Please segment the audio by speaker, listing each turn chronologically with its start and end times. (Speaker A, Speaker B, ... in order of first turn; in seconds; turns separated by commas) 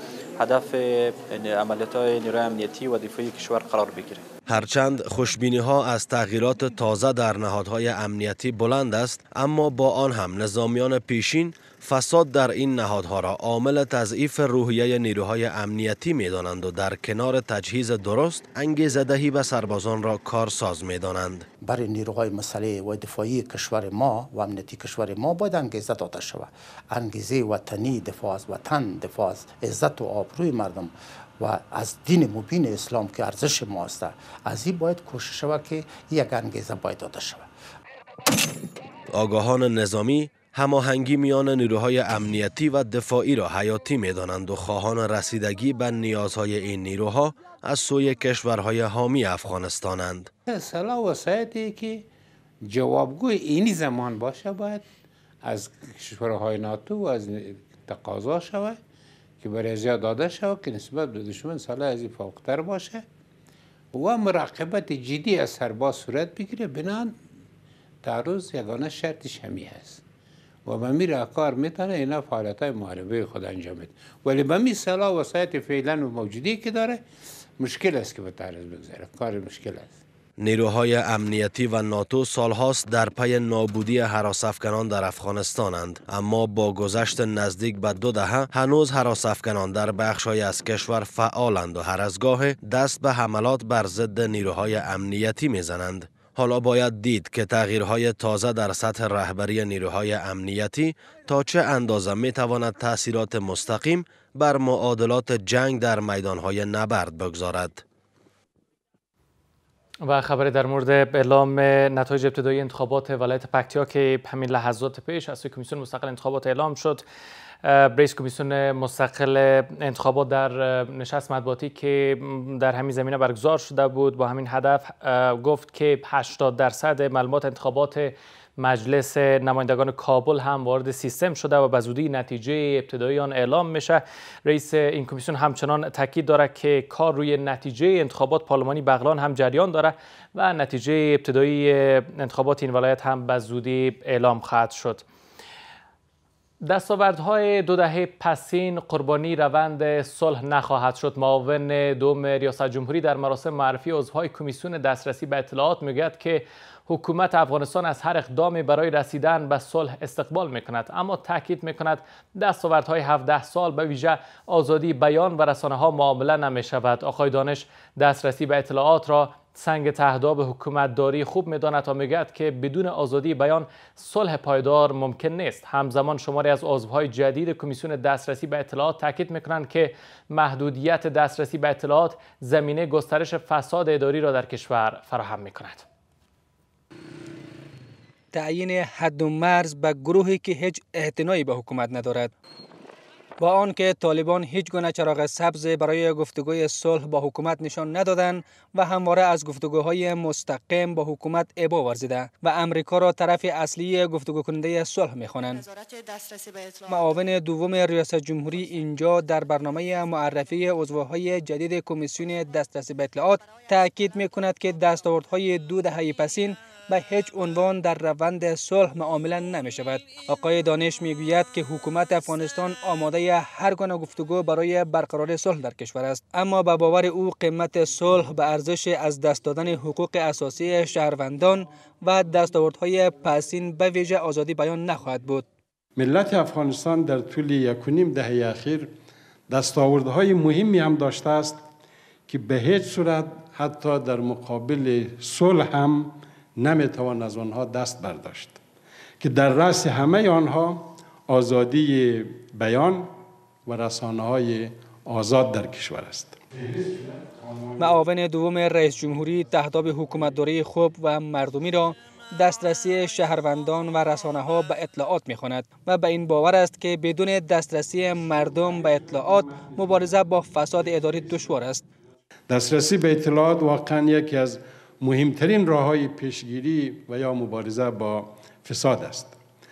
Speaker A: 0.4-4.2, Speaker B: 4.5-21.5, Speaker C: 21.6-37.5, Speaker B: 39.1-50.3, Speaker D: 50.5-52.0, Speaker D: 52.7-54.8, Speaker D: 55.4-58.8, Speaker D: 59.4-63.0, Speaker D: 63.9-67.2, Speaker D: 68.0-70.0, Speaker D: 70.7-77.0, Speaker D: 77.6-80.0, Speaker B: 80.4-107.8, Speaker E: 110.0-117.0, Speaker E: 117.6-145.0, Speaker E: 146.6-185.8, Speaker F: 188.3-192.3, Speaker F: 193.4-205.6, Speaker F: 206.9-235.4, Speaker G: 236.0-238.9, Speaker G: 239.5-241.6, Speaker G: 242.3-248.6, Speaker G: 249.2-253.1, Speaker G: 253.7-257.7, Speaker F: 257.8-271.8, Speaker G: 272.5-279.4